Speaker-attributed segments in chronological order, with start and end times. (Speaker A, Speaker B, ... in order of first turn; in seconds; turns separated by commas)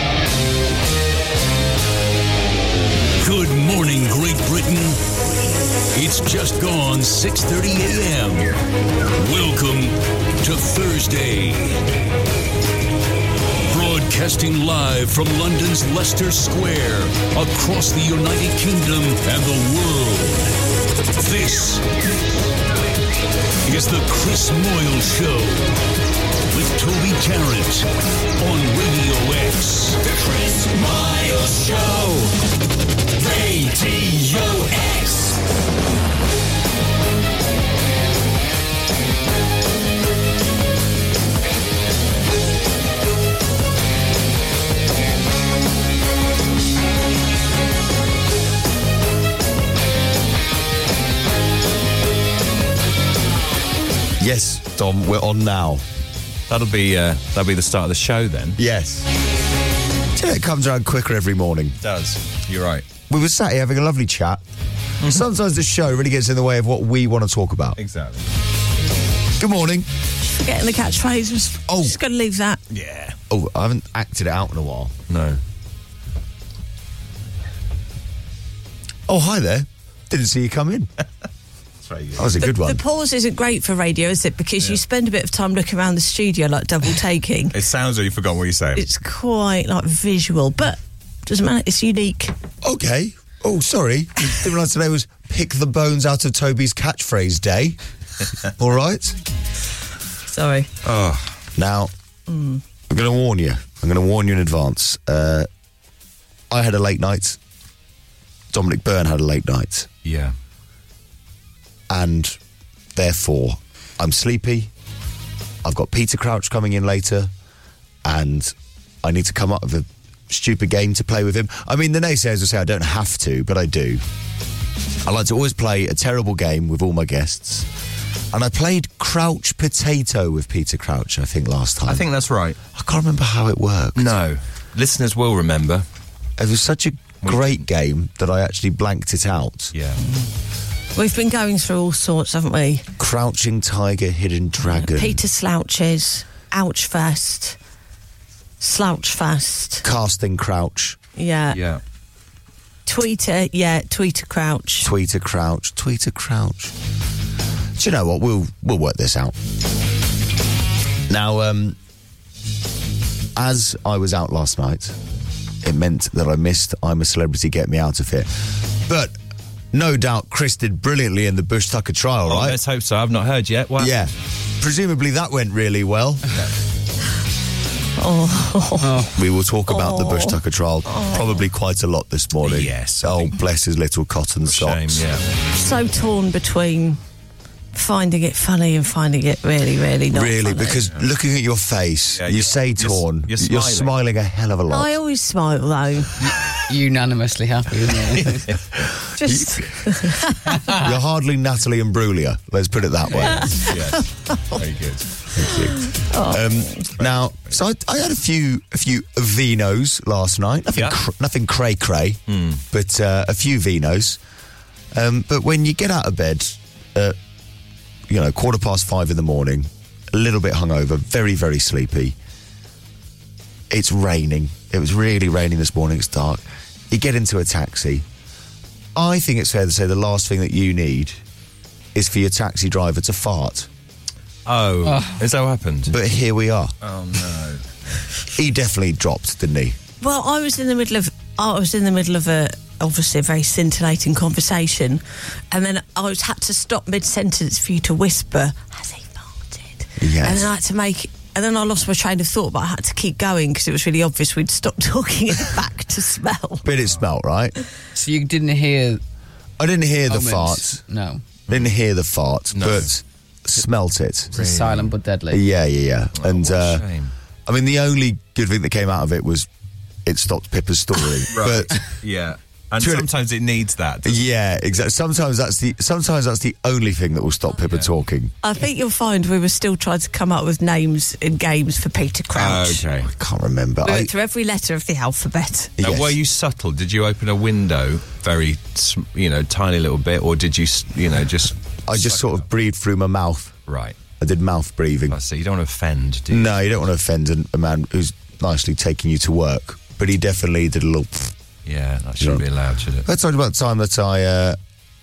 Speaker A: 3.2-5.0, Speaker A: 5.9-8.5, Speaker A: 9.2-11.8, Speaker A: 13.7-20.5, Speaker A: 21.1-21.8, Speaker A: 23.6-25.8, Speaker A: 26.5-27.9, Speaker A: 28.4-30.0, Speaker B: 30.0-32.3, Speaker B: 33.1-35.4, Speaker C: 54.2-55.8, Speaker D: 56.5-58.6, Speaker C: 58.6-59.1, Speaker C: 60.1-61.8, Speaker D: 61.8-62.9, Speaker C: 63.1-64.4, Speaker C: 65.0-67.8, Speaker D: 67.8-68.2, Speaker C: 69.4-69.9, Speaker E: 70.4-72.6, Speaker C: 71.7-72.0, Speaker D: 72.7-73.2, Speaker C: 73.3-74.9, Speaker D: 75.1-75.4, Speaker C: 79.1-80.9, Speaker D: 81.8-82.3, Speaker C: 82.2-82.8, Speaker E: 82.4-87.5, Speaker D: 87.5-88.8, Speaker E: 88.8-92.3, Speaker C: 92.6-97.8, Speaker C: 98.6-99.2, Speaker E: 100.3-100.7, Speaker D: 100.8-101.3, Speaker C: 101.5-101.9, Speaker E: 102.3-102.6, Speaker C: 102.9-105.5, Speaker C: 106.5-107.4, Speaker C: 108.5-109.9, Speaker D: 110.0-110.3, Speaker C: 111.9-112.4, Speaker C: 112.9-114.7, Speaker C: 115.6-117.3, Speaker C: 118.0-124.0, Speaker C: 125.0-127.7, Speaker C: 128.3-132.0, Speaker D: 131.9-132.6, Speaker C: 132.7-134.2, Speaker D: 133.9-135.8, Speaker C: 136.4-139.7, Speaker D: 137.2-137.6, Speaker D: 139.7-140.0, Speaker E: 140.9-142.8, Speaker C: 143.0-145.2, Speaker E: 144.7-147.6, Speaker E: 148.6-149.8, Speaker C: 149.8-151.0, Speaker E: 151.2-151.6, Speaker D: 151.5-151.8, Speaker E: 152.8-154.9, Speaker C: 154.8-156.7, Speaker C: 157.8-159.3, Speaker C: 161.1-161.8, Speaker C: 163.3-164.9, Speaker C: 165.6-168.3, Speaker C: 168.8-169.2, Speaker C: 169.7-172.6, Speaker D: 172.3-174.0, Speaker C: 173.8-176.4, Speaker E: 178.0-179.0, Speaker F: 178.8-179.1, Speaker C: 179.1-185.0, Speaker E: 179.7-181.4, Speaker D: 182.4-183.3, Speaker D: 184.4-185.2, Speaker E: 185.6-187.0, Speaker E: 187.7-190.8, Speaker C: 190.1-194.9, Speaker D: 192.1-193.9, Speaker E: 194.7-196.1, Speaker F: 196.7-198.4, Speaker E: 199.2-200.6, Speaker C: 199.2-199.6, Speaker C: 200.7-203.7, Speaker D: 203.2-205.1, Speaker E: 204.3-204.6, Speaker C: 205.3-214.2, Speaker E: 205.8-206.9, Speaker D: 207.0-207.5, Speaker D: 212.3-212.6, Speaker C: 214.9-217.2, Speaker C: 218.1-222.2, Speaker C: 223.7-228.0, Speaker C: 228.9-231.2, Speaker C: 231.9-233.7, Speaker D: 234.4-235.9, Speaker F: 234.8-235.2, Speaker C: 235.9-236.7, Speaker D: 236.8-237.6, Speaker C: 238.3-239.8, Speaker E: 240.0-256.6, Speaker C: 250.0-250.5, Speaker C: 256.6-257.5, Speaker F: 257.9-259.0, Speaker C: 259.6-260.8, Speaker F: 260.1-261.2, Speaker C: 261.5-264.3, Speaker D: 262.5-262.9, Speaker F: 264.3-265.4, Speaker D: 264.3-264.9, Speaker C: 265.3-266.8, Speaker D: 266.2-267.1, Speaker C: 267.4-269.5, Speaker C: 270.0-271.8, Speaker D: 271.3-274.2, Speaker C: 272.8-273.1, Speaker C: 274.0-278.3, Speaker E: 278.4-282.8, Speaker D: 282.3-283.1, Speaker C: 283.0-284.1, Speaker E: 283.8-285.7, Speaker C: 285.8-286.1, Speaker D: 285.8-292.4, Speaker C: 291.9-293.6, Speaker D: 293.7-294.0, Speaker C: 294.2-295.2, Speaker D: 295.1-296.6, Speaker C: 296.3-301.3, Speaker D: 301.6-303.1, Speaker C: 303.0-304.6